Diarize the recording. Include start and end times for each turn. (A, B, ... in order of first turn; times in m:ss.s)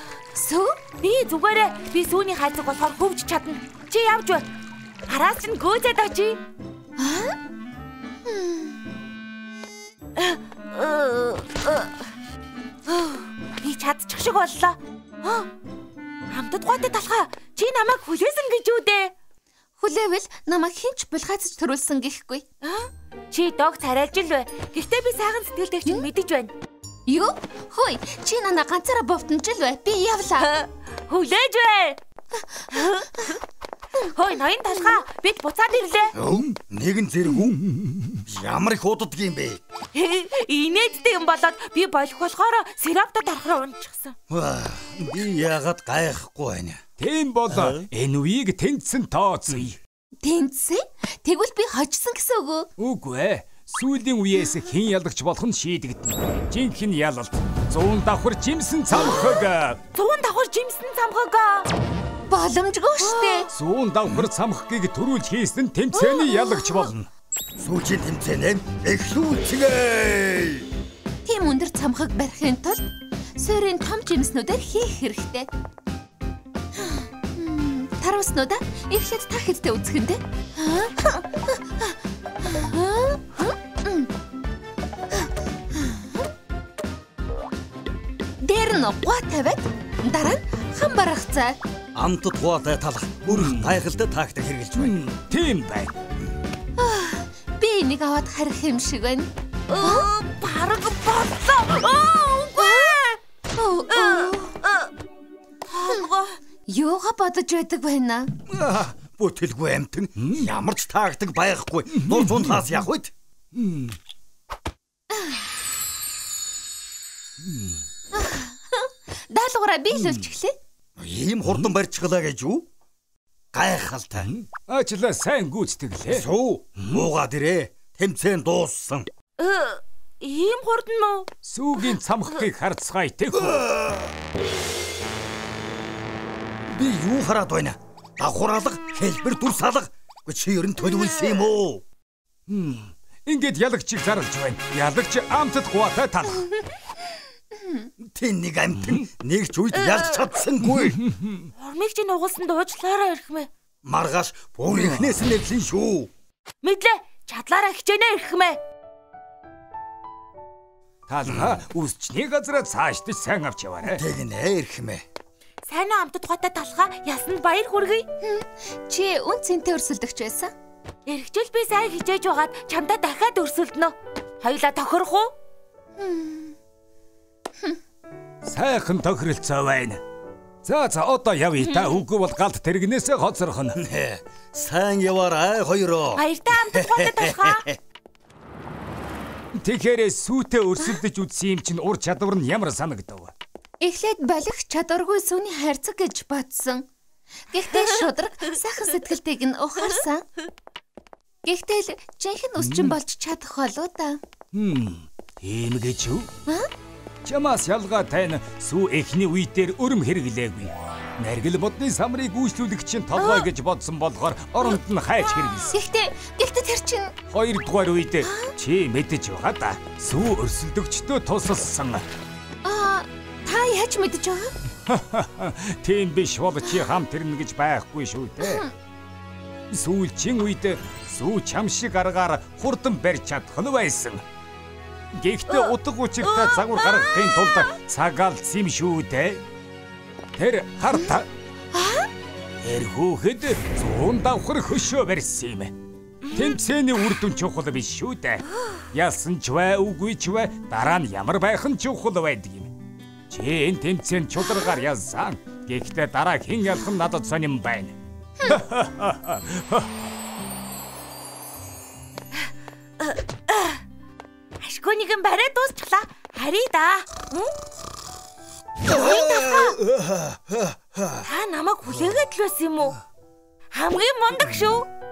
0:00.3-0:00.8 A
0:01.0-0:04.4 B
0:05.1-0:06.4 B
0:07.0-0:07.4 A
0:08.2-0:08.8 A
0:10.2-0:12.1 B
0:12.9-0:15.5 B
0:16.3-0:19.1 B
0:19.8-0:22.4 A
0:22.6-0:26.5 B
0:27.1-0:30.5 A
0:30.4-0:32.0 B
0:32.3-0:33.3 A
0:32.7-0:33.4 B
0:34.0-0:36.2 B
0:36.1-0:37.6 C
0:37.4-0:38.2 D
0:38.3-0:39.6 C
0:39.9-0:44.2 B
0:44.3-0:46.8 C
0:47.0-0:49.8 D
0:47.5-0:47.9 C
0:50.2-0:52.7 A
0:52.8-0:59.8 D
0:59.1-0:59.4 A
0:59.9-1:01.7 B
1:02.3-1:03.5 A
1:03.0-1:03.5 B
1:03.5-1:07.1 D
1:06.1-1:06.9 A
1:07.6-1:10.7 C
1:11.2-1:15.5 A
1:16.8-1:24.1 A
1:25.1-1:26.3 A
1:28.4-1:31.6 A
1:32.0-1:35.0 C
1:33.3-1:33.7 D
1:34.8-1:35.9 D
1:36.8-1:39.3 A
1:39.7-1:43.2 B
1:39.8-1:40.1 A
1:42.6-1:43.0 A
1:43.6-1:44.6 A
1:43.9-1:44.9 B
1:45.7-1:46.4 B
1:45.8-1:46.1 A
1:46.7-1:48.3 A
1:48.5-1:53.1 C
1:50.2-1:50.5 D
1:51.9-1:52.8 D
1:53.5-1:54.0 D
1:55.1-1:55.4 A
1:57.4-1:57.8 D
1:58.1-2:00.6 A
1:59.9-2:00.3 D
2:01.0-2:02.7 C
2:03.5-2:04.3 C
2:04.2-2:06.3 D
2:06.1-2:09.1 C
2:06.8-2:07.0 D
2:09.4-2:11.3 B
2:11.4-2:13.7 D
2:13.3-2:14.1 C
2:16.7-2:21.8 C
2:22.5-2:26.5 D
2:26.5-2:27.9 A
2:28.0-2:31.0 C
2:28.8-2:29.0 D
2:29.8-2:30.2 B
2:30.6-2:31.5 D
2:31.6-2:33.5 B
2:33.8-2:36.1 C
2:34.7-2:35.1 D
2:36.6-2:38.6 B
2:41.1-2:44.0 D
2:41.3-2:41.6 C
2:43.8-2:45.0 C
2:45.7-2:48.1 B
2:48.2-2:50.5 A
2:51.1-2:55.3 B
2:56.0-2:56.6 A
2:58.4-3:00.0 D
3:00.6-3:03.8 D
3:01.6-3:02.0 B
3:03.8-3:07.8 C
3:06.2-3:07.7 B
3:09.6-3:13.3 D
3:13.8-3:16.9 A
3:17.5-3:20.2 A
3:21.4-3:24.2 A
3:22.6-3:23.0 D
3:24.5-3:26.3 D
3:27.2-3:35.8 D
3:33.2-3:33.5 A
3:35.7-3:37.1 A
3:37.3-3:42.1 D
3:38.2-3:38.5 A
3:42.6-3:44.5 A
3:44.9-3:48.6 D
3:48.4-3:48.7 A
3:49.7-3:54.2 D
3:55.1-3:59.4 D
3:55.5-3:57.7 B
4:00.4-4:01.3 D
4:01.7-4:02.1 A
4:02.6-4:05.7 D
4:06.2-4:06.6 B
4:06.3-4:12.7 D
4:13.3-4:19.9 D
4:22.4-4:23.8 B
4:24.6-4:27.5 B
4:28.8-4:29.8 B
4:28.8-4:31.3 C
4:31.2-4:33.0 B
4:33.7-4:34.9 B